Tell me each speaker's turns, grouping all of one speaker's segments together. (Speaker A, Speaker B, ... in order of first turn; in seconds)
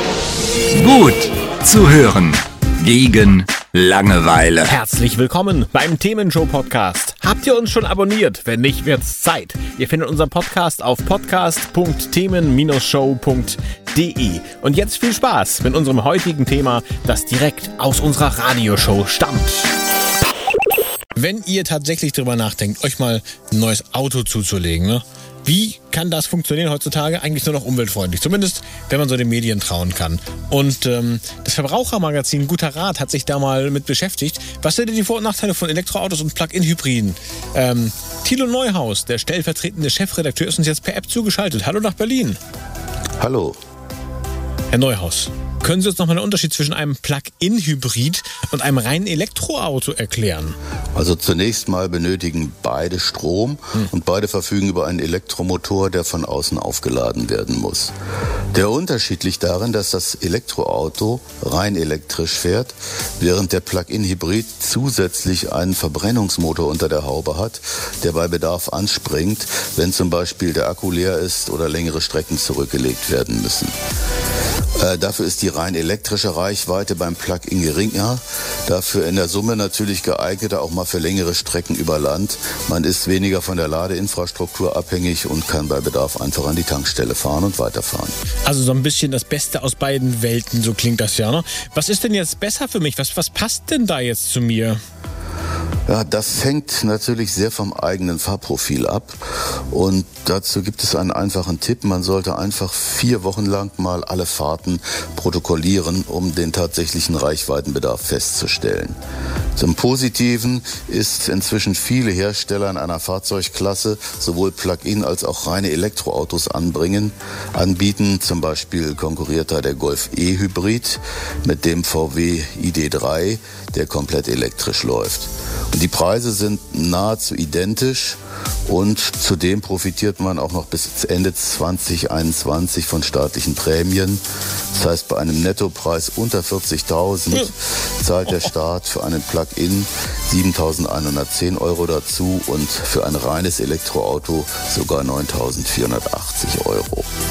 Speaker A: 0.7-4.7
Speaker B: 4.6-19.7, 21.1-42.4, 44.7-50.5, 88.5-94.8
Speaker C: 43.2-43.6, 51.0-57.9, 58.5-73.7, 74.8-88.1, 95.9-109.0, 109.5-147.1